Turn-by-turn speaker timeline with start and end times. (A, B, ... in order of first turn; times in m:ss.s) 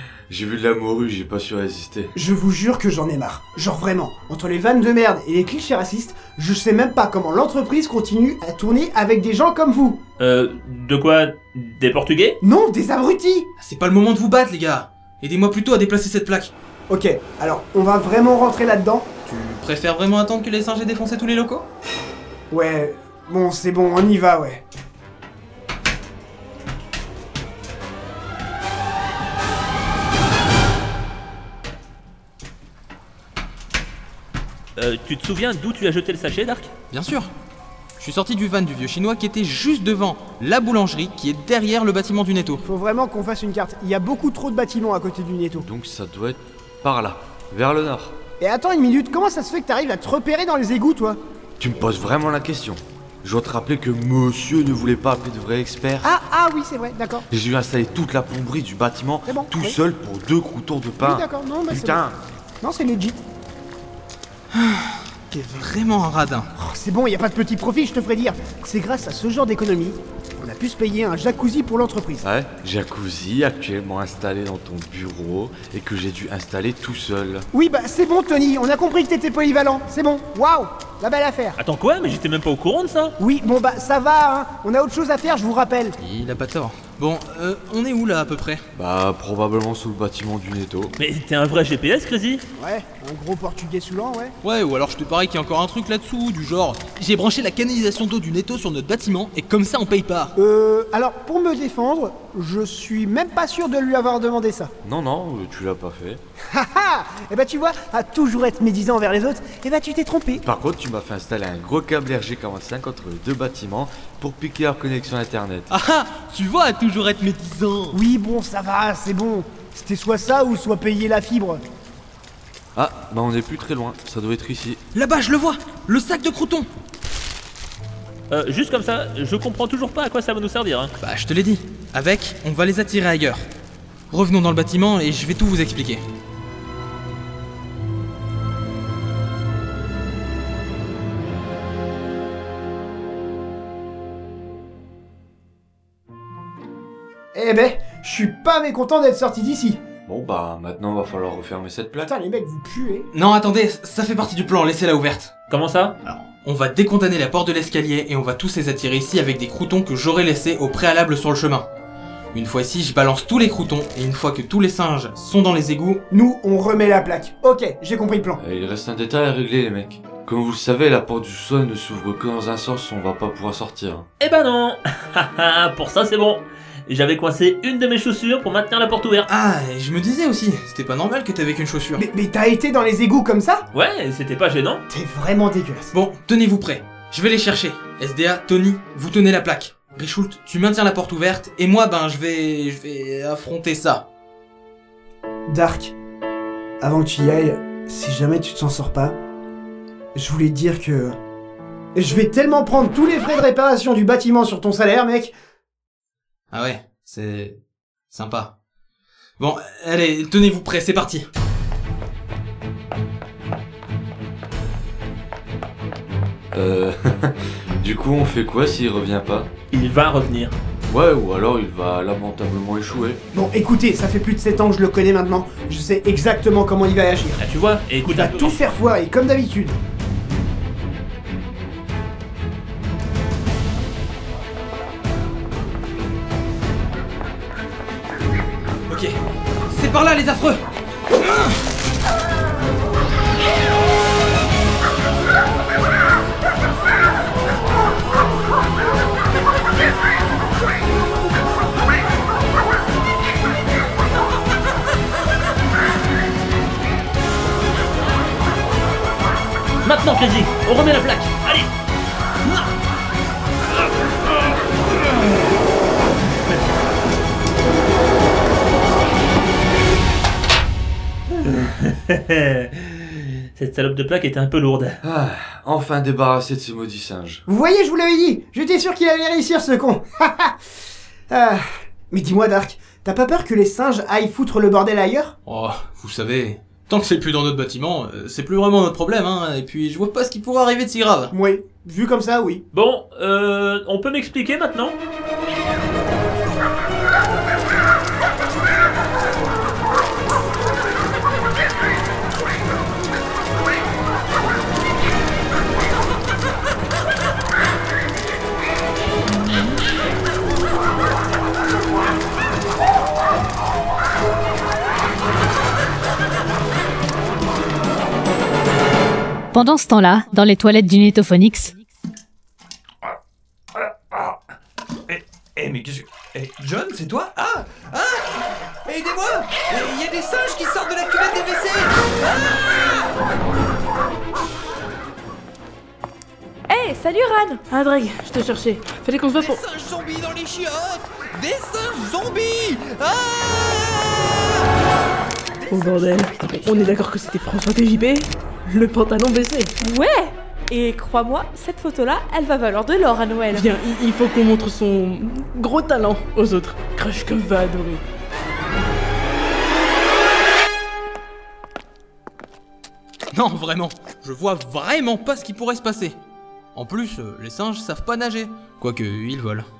0:00.3-0:02.1 A
0:02.1-0:10.0 B
0:10.2-0:12.4 C
0:12.4-0:13.5 B
0:13.6-0:16.5 D
0:16.9-0:19.1 B
0:19.3-0:21.7 D
0:22.5-0:24.6 B
0:34.8-0:36.7 C
0:36.9-0:37.3 D
0:38.0-0:42.6 D
0:42.6-0:45.7 B
0:45.6-0:48.2 A
0:48.4-0:51.2 B
0:51.6-0:56.1 A
0:56.0-0:57.2 B
0:57.3-1:02.2 A
0:59.3-0:59.8 B
1:01.0-1:02.0 B
1:02.6-1:03.2 B
1:04.5-1:06.5 D
1:06.6-1:12.3 B
1:12.2-1:17.5 A
1:17.5-1:21.6 B
1:21.6-1:23.2 C
1:23.2-1:26.0 B
1:26.0-1:28.6 D
1:28.7-1:30.9 A
1:31.0-1:32.4 C
1:32.6-1:34.4 B
1:34.4-1:40.3 D
1:40.4-1:44.7 B
1:44.8-1:46.2 A
1:46.5-1:50.4 B
1:50.4-1:55.7 A
1:55.7-1:58.0 D
1:57.9-2:01.6 B
2:02.8-2:04.8 A
2:04.9-2:06.7 D
2:08.3-2:10.9 C
2:11.0-2:13.5 D
2:14.1-2:16.0 D
2:27.3-2:29.8 B
2:30.1-2:32.1 A
2:32.0-2:33.1 B
2:33.1-2:35.3 D
2:35.5-2:36.0 C
2:36.0-2:41.7 D
2:42.3-2:46.0 D
2:46.1-2:48.4 B
2:48.4-2:54.1 A
2:54.2-2:59.3 C
2:59.3-3:02.0 D
3:02.0-3:03.7 B
3:03.7-3:04.8 C
3:04.9-3:05.9 B
3:05.9-3:14.0 D
3:15.5-3:16.0 B
3:16.8-3:19.2 B
3:20.2-3:21.2 B
3:22.0-3:25.4 B
3:26.5-3:27.6 D
3:28.1-3:28.5 D
3:29.4-3:31.3 D
3:36.5-3:39.5 A
3:39.7-3:40.6 C
3:40.9-3:43.2 A
3:43.3-3:47.4 B
3:47.4-3:48.7 C
3:48.0-3:49.8 B
3:58.9-3:59.1 D
3:59.7-4:00.6 D
4:01.1-4:01.6 D
4:19.8-4:21.7 C
4:22.4-4:22.7 C
4:31.4-4:35.0 C
4:35.0-4:37.4 A
4:37.5-4:40.6 B
4:41.3-4:45.4 B
4:45.5-4:51.3 D
4:51.3-4:52.6 B
4:52.7-4:55.0 C
5:19.5-5:21.7 E
5:25.1-5:33.2 F
5:36.7-5:37.6 G
5:37.7-5:39.6 H
5:39.4-5:44.6 F
5:45.7-5:49.8 H
5:49.8-5:53.7 G
5:53.5-5:58.0 H
6:03.3-6:06.2 D
6:06.7-6:09.7 D